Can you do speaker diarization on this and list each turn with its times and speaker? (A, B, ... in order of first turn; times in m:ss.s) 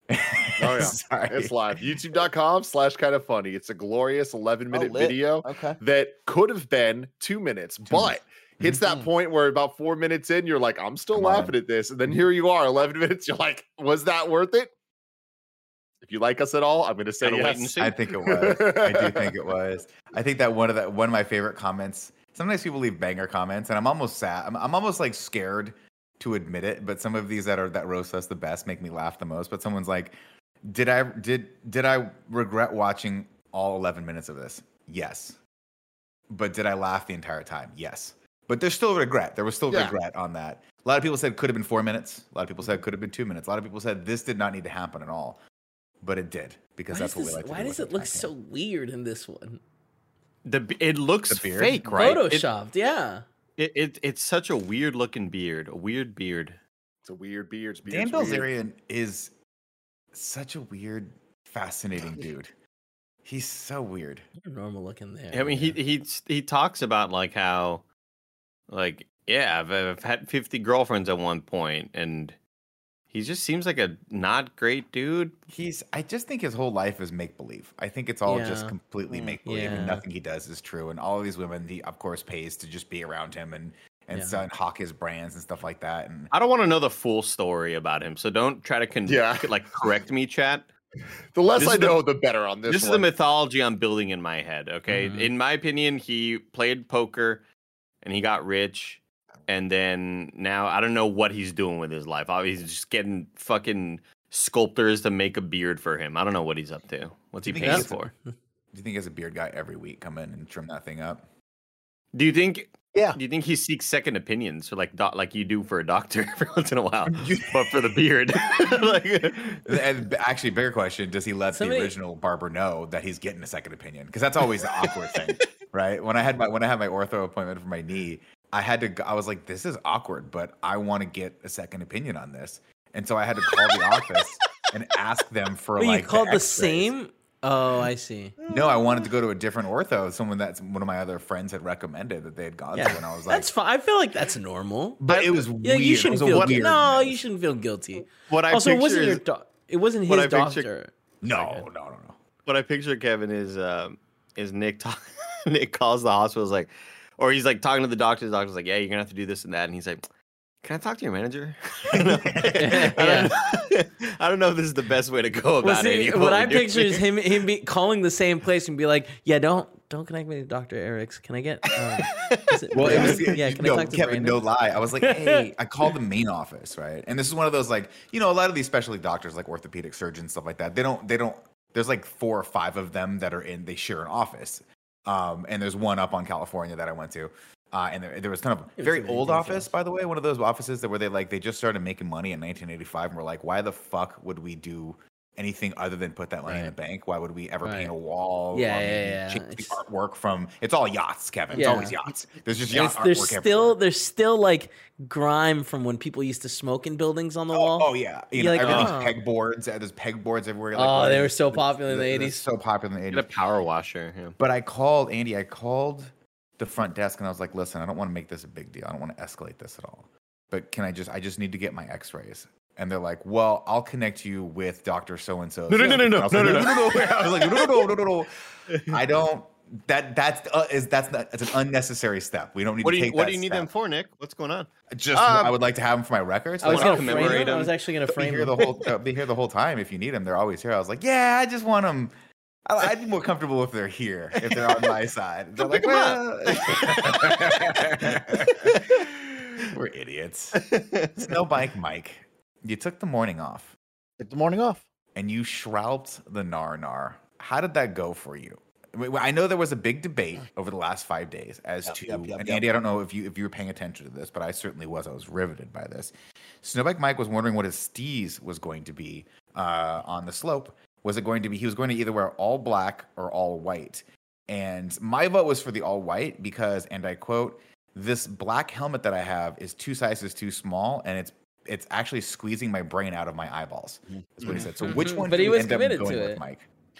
0:00.1-0:01.8 A
0:00.6-0:14.7 B
0:04.7-0:05.8 C
0:07.8-0:08.8 A
0:11.1-0:11.5 A
0:16.0-0:19.3 B
0:17.2-0:18.0 D
0:17.8-0:35.4 A
0:36.3-0:45.4 A
0:39.7-0:39.9 B
0:46.0-0:48.3 A
0:46.9-0:49.6 E
0:50.4-0:52.4 D
0:51.3-0:52.3 A
0:52.0-0:53.2 E
0:53.6-0:56.6 D
0:57.0-0:58.5 B
0:57.9-0:59.3 A
1:00.1-1:02.5 A
1:03.2-1:04.2 A
1:04.4-1:05.8 E
1:05.3-1:07.8 D
1:08.7-1:12.4 D
1:13.1-1:15.4 D
1:15.5-1:26.3 A
1:18.2-1:20.0 E
1:24.1-1:24.4 E
1:26.3-1:30.7 D
1:29.1-1:29.5 B
1:31.3-1:33.1 B
1:31.6-1:32.0 D
1:32.7-1:37.4 D
1:34.9-1:35.3 E
1:38.0-1:48.1 D
1:47.4-1:48.1 A
1:47.6-1:48.3 E
1:48.7-1:51.2 A
1:52.1-1:59.7 D
1:57.1-1:57.8 A
1:59.7-2:16.9 A
2:01.5-2:01.9 E
2:04.6-2:04.9 D
2:15.8-2:18.3 E
2:18.5-2:23.5 A
2:22.7-2:31.6 E
2:25.0-2:27.2 A
2:26.1-2:26.6 D
2:28.0-2:29.2 D
2:30.1-2:30.7 D
2:31.2-2:32.2 A
2:32.4-2:40.1 D
2:40.6-2:47.0 D
2:41.9-2:42.5 A
2:42.6-2:43.3 E
2:45.6-2:54.4 E
2:52.2-2:53.2 D
2:52.7-3:23.8 A
2:55.0-2:55.5 E
3:08.8-3:09.7 E
3:16.4-3:16.7 E
3:17.6-3:17.9 E
3:18.5-3:19.8 E
3:21.5-3:21.8 C
3:21.5-3:22.0 E
3:22.7-3:29.1 E
3:27.5-3:33.3 A
3:28.6-3:28.9 D
3:30.7-3:32.4 E
3:33.1-3:34.4 D
3:34.4-3:53.7 A
3:45.7-3:47.8 D
3:52.8-3:55.5 D
3:54.9-4:02.1 A
3:56.6-3:58.6 E
3:56.6-3:57.7 D
4:02.6-4:08.9 A
4:04.4-4:04.9 D
4:05.6-4:09.7 D
4:09.7-4:10.7 A
4:10.6-4:11.4 D
4:11.2-4:13.8 A
4:14.2-4:14.8 C
4:15.1-4:46.7 A
4:21.9-4:22.6 C
4:44.8-4:46.4 E